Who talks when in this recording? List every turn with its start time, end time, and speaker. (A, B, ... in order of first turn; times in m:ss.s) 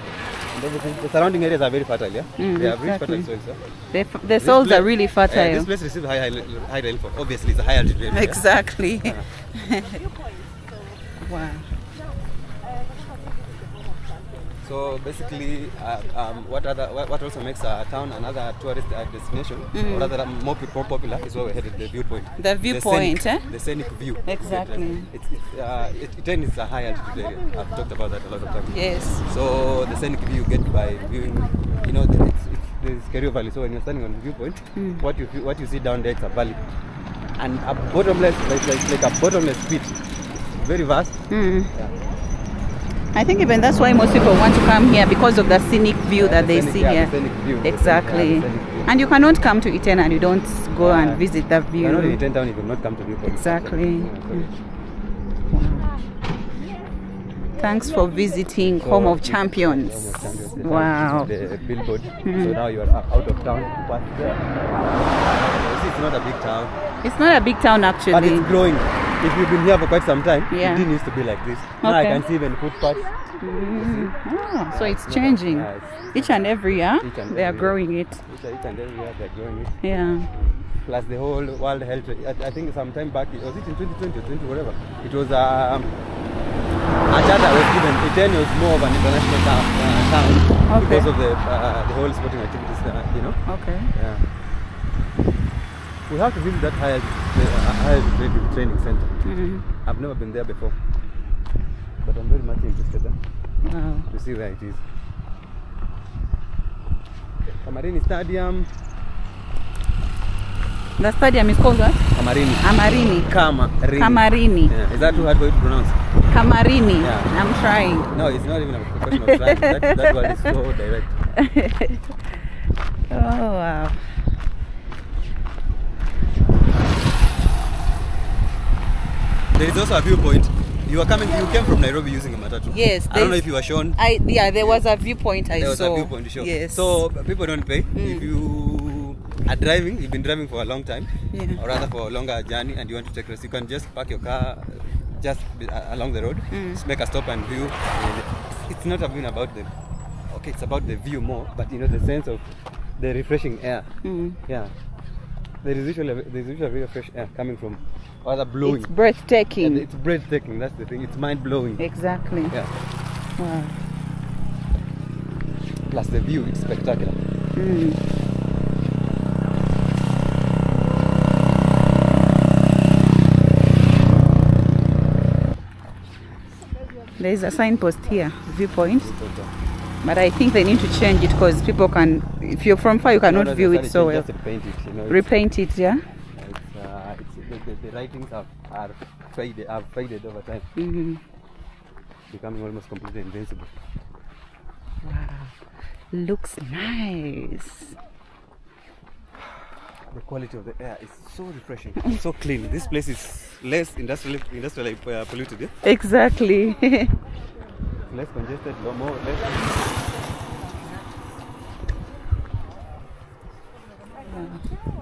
0:00.5-0:03.6 A
0:02.4-0:03.3 B
0:03.9-0:05.7 B
0:04.4-0:08.4 A
0:08.1-0:10.0 B
0:11.2-0:11.7 B
0:14.6-0:36.6 A
0:19.7-0:20.1 B
0:22.4-0:23.5 B
0:24.3-0:25.1 B
0:28.7-0:29.2 B
0:34.8-0:35.0 B
0:37.4-0:40.0 A
0:40.6-0:41.2 A
0:41.3-0:41.7 B
0:43.1-0:52.2 B
0:46.2-0:49.0 A
0:50.7-0:51.2 A
0:51.8-0:54.5 A
0:53.2-0:54.5 B
0:55.5-0:56.0 B
0:57.6-1:01.3 B
0:58.8-1:04.4 A
1:02.2-1:02.6 B
1:05.3-1:06.8 A
1:07.0-1:08.5 B
1:08.1-1:14.2 A
1:10.5-1:10.9 B
1:11.8-1:12.2 B
1:13.4-1:18.2 B
1:14.7-1:25.9 A
1:19.8-1:20.3 B
1:27.1-1:33.4 A
1:30.7-1:31.1 B
1:33.5-1:33.9 B
1:33.9-1:34.2 A
1:36.1-1:39.2 A
1:39.2-1:39.6 B
1:39.8-1:40.8 A
1:42.0-1:43.2 A
1:43.6-1:44.1 B
1:44.1-1:44.8 A
1:47.6-1:48.7 A
1:51.0-1:53.3 B
1:52.1-1:56.0 A
1:54.0-1:55.2 B
1:56.3-1:58.1 B
1:57.0-1:57.3 A
1:58.1-2:01.2 A
1:59.1-2:00.5 B
2:01.4-2:02.1 B
2:03.1-2:04.1 B
2:09.5-2:14.0 A
2:12.7-2:17.0 B
2:15.6-2:29.7 A
2:18.0-2:18.3 B
2:21.3-2:21.6 B
2:26.5-2:26.8 B
2:30.3-2:32.5 A
2:33.0-2:33.9 A
2:34.0-2:34.4 B
2:34.5-2:34.7 A
2:35.6-2:38.9 A
2:38.6-2:39.8 B
2:39.6-2:41.8 A
2:41.8-2:42.6 B
2:43.4-2:43.7 B
2:45.9-2:47.2 A
2:47.6-2:48.0 B
2:57.2-2:59.1 B
2:58.9-2:59.5 A
3:00.0-3:04.3 B
3:03.2-3:05.3 A
3:05.1-3:06.0 B
3:06.4-3:10.7 A
3:10.8-3:11.2 B
3:12.3-3:13.7 A
3:15.0-3:15.5 B
3:16.1-3:17.9 B
3:20.1-3:25.7 A
3:25.8-3:27.1 B
3:28.1-3:29.8 A
3:34.3-3:34.6 B